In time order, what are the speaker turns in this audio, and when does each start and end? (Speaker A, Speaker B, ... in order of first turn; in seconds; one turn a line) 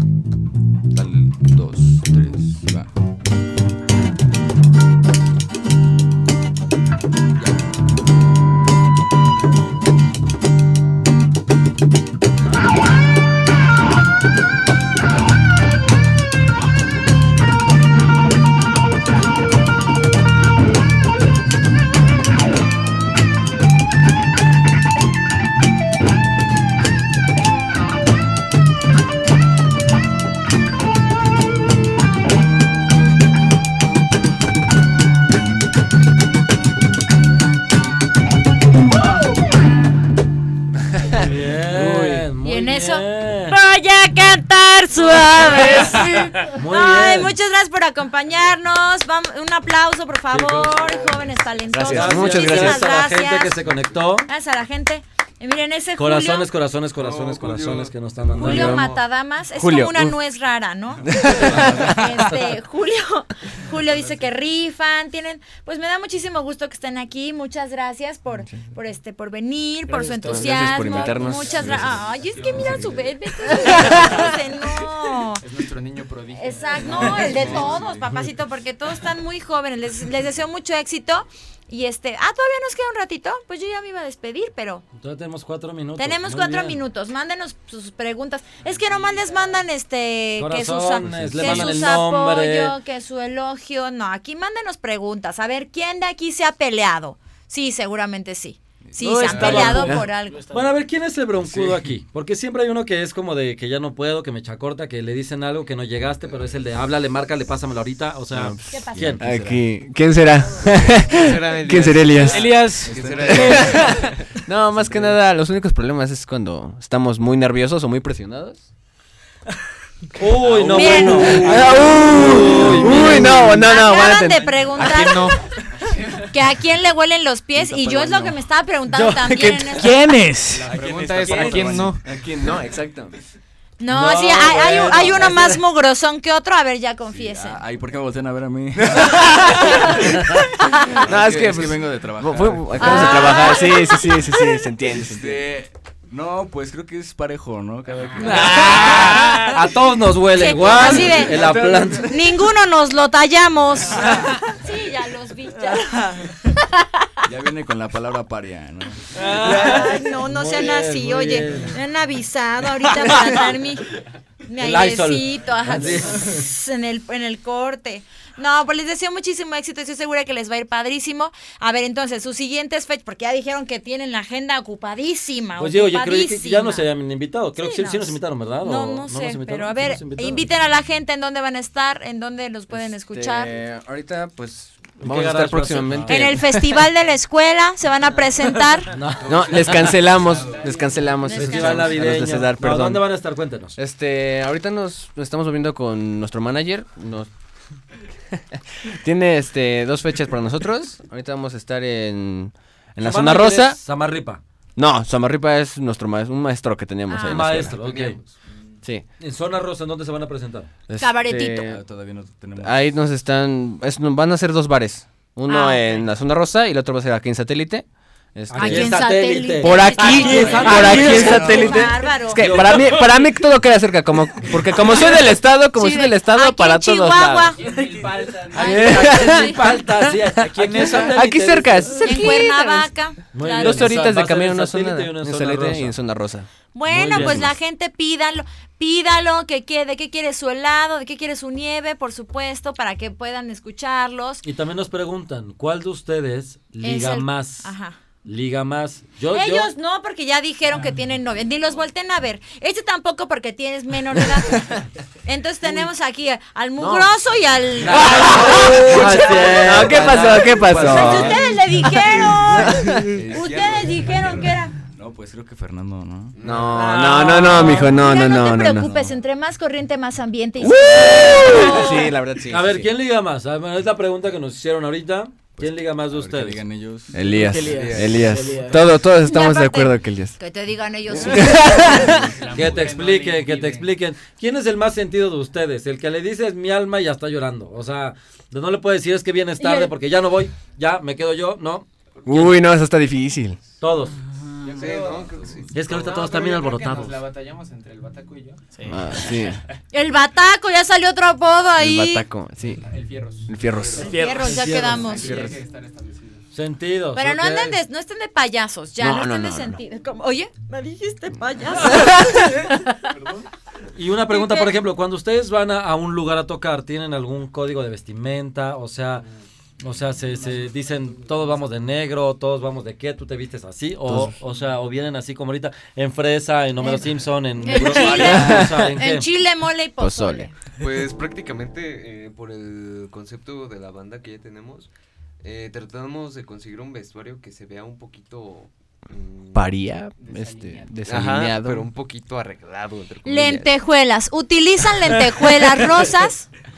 Speaker A: 0.9-2.9
Speaker B: 41.1-43.5
Speaker C: 41.7-42.2
Speaker D: 42.4-53.6
Speaker B: 46.4-47.4
Speaker E: 50.3-51.2
Speaker F: 51.7-52.8
Speaker B: 51.8-54.3
Speaker D: 54.2-56.5
Speaker B: 56.0-58.9
Speaker E: 57.0-59.0
Speaker D: 58.4-75.4
Speaker F: 58.4-58.9
Speaker F: 59.6-60.2
Speaker F: 61.1-62.1
Speaker G: 63.7-64.3
Speaker G: 69.9-74.6
Speaker F: 70.2-72.0
Speaker A: 71.5-73.0
Speaker G: 75.4-78.3
Speaker D: 76.3-84.8
Speaker B: 85.0-86.8
Speaker D: 86.0-100.5
Speaker G: 88.8-89.4
Speaker B: 90.4-92.8
Speaker A: 91.0-91.7
Speaker F: 99.0-100.1
Speaker G: 99.2-99.7
Speaker B: 99.3-109.3
Speaker C: 99.9-100.8
Speaker F: 108.3-112.5
Speaker D: 108.7-109.2
Speaker A: 109.0-109.6
Speaker E: 110.6-114.2
Speaker C: 112.1-113.6
Speaker A: 112.6-114.1
Speaker F: 113.3-118.6
Speaker A: 114.8-115.1
Speaker B: 120.2-123.3
Speaker D: 120.7-121.5
Speaker F: 120.8-125.3
Speaker D: 122.9-125.4
Speaker G: 124.6-126.2
Speaker D: 126.2-130.0
Speaker A: 127.5-128.4
Speaker B: 128.9-129.7
Speaker C: 129.7-130.7
Speaker G: 130.4-132.0
Speaker E: 130.7-131.9
Speaker F: 130.7-133.2
Speaker D: 133.8-137.6
Speaker B: 133.9-135.6
Speaker A: 137.1-139.9
Speaker F: 138.8-145.5
Speaker D: 140.6-141.0
Speaker A: 140.9-143.5
Speaker D: 142.8-144.7
Speaker A: 144.9-149.2
Speaker B: 148.2-152.2
Speaker D: 148.8-149.4
Speaker D: 150.3-157.2
Speaker F: 151.0-151.7
Speaker A: 157.2-159.1
Speaker B: 159.1-161.8
Speaker D: 159.4-163.9
Speaker B: 163.0-163.4
Speaker D: 164.4-176.9
Speaker B: 164.6-166.4
Speaker B: 175.6-180.4
Speaker D: 177.6-183.5
Speaker F: 182.7-186.8
Speaker B: 185.0-186.3
Speaker D: 186.1-188.9
Speaker B: 188.9-189.8
Speaker E: 189.2-190.9
Speaker F: 189.2-193.0
Speaker G: 190.3-191.0
Speaker D: 191.2-192.1
Speaker B: 191.3-193.8
Speaker F: 193.8-197.3
Speaker F: 198.3-203.8
Speaker B: 203.0-204.4
Speaker F: 204.8-207.8
Speaker D: 207.1-207.5
Speaker B: 207.2-208.2
Speaker E: 207.7-208.3
Speaker B: 209.2-210.7
Speaker F: 210.9-211.8
Speaker D: 211.0-211.7
Speaker A: 211.6-213.0
Speaker F: 212.6-227.6
Speaker D: 215.5-216.0
Speaker B: 218.5-223.3
Speaker D: 218.5-222.4
Speaker C: 220.1-221.8
Speaker D: 225.7-227.6
Speaker G: 227.5-229.1
Speaker D: 228.5-229.8
Speaker B: 228.5-232.3
Speaker F: 228.8-229.5
Speaker C: 230.4-231.3
Speaker F: 230.9-232.9
Speaker D: 232.0-234.0
Speaker B: 233.3-235.9
Speaker F: 233.5-236.5
Speaker D: 236.7-244.4
Speaker B: 236.9-237.5
Speaker B: 244.4-247.7
Speaker D: 246.8-248.0
Speaker B: 248.2-249.7
Speaker D: 249.3-264.7
Speaker F: 256.8-257.1
Speaker B: 257.8-261.4
Speaker F: 257.9-263.2
Speaker E: 262.0-264.5
Speaker A: 262.9-264.4
Speaker A: 264.9-266.4
Speaker E: 266.3-267.2
Speaker F: 266.4-268.9
Speaker D: 266.7-272.1
Speaker A: 268.7-269.2
Speaker F: 270.6-272.9
Speaker B: 271.4-271.7
Speaker B: 272.5-276.6
Speaker A: 275.5-277.5
Speaker F: 277.1-280.4
Speaker C: 277.2-278.9
Speaker E: 277.5-278.8
Speaker D: 279.2-282.3
Speaker F: 281.1-282.4
Speaker G: 281.7-283.9
Speaker B: 282.5-292.5
Speaker D: 289.6-289.9
Speaker F: 292.2-293.6
Speaker B: 293.8-294.2
Speaker G: 294.6-295.3
Speaker E: 294.6-296.2
Speaker B: 295.7-297.2
Speaker G: 295.9-299.5
Speaker F: 298.8-299.6
Speaker D: 299.9-302.2
Speaker F: 301.8-302.9
Speaker G: 302.8-306.4
Speaker F: 303.5-304.1
Speaker D: 304.0-305.5
Speaker C: 304.1-304.5
Speaker B: 304.3-305.5
Speaker F: 305.1-305.6
Speaker B: 306.5-307.8
Speaker D: 307.1-313.0
Speaker F: 309.0-309.8
Speaker G: 313.2-313.4
Speaker B: 313.9-319.2
Speaker D: 314.3-314.7
Speaker B: 319.8-329.3
Speaker G: 320.1-321.8
Speaker F: 324.1-324.3
Speaker D: 326.8-330.5
Speaker E: 327.9-328.4
Speaker F: 328.1-328.9
Speaker F: 330.0-330.5
Speaker E: 330.8-334.9
Speaker E: 335.4-339.7
Speaker F: 339.5-341.9
Speaker G: 340.2-341.1
Speaker E: 341.1-343.7
Speaker D: 343.2-346.5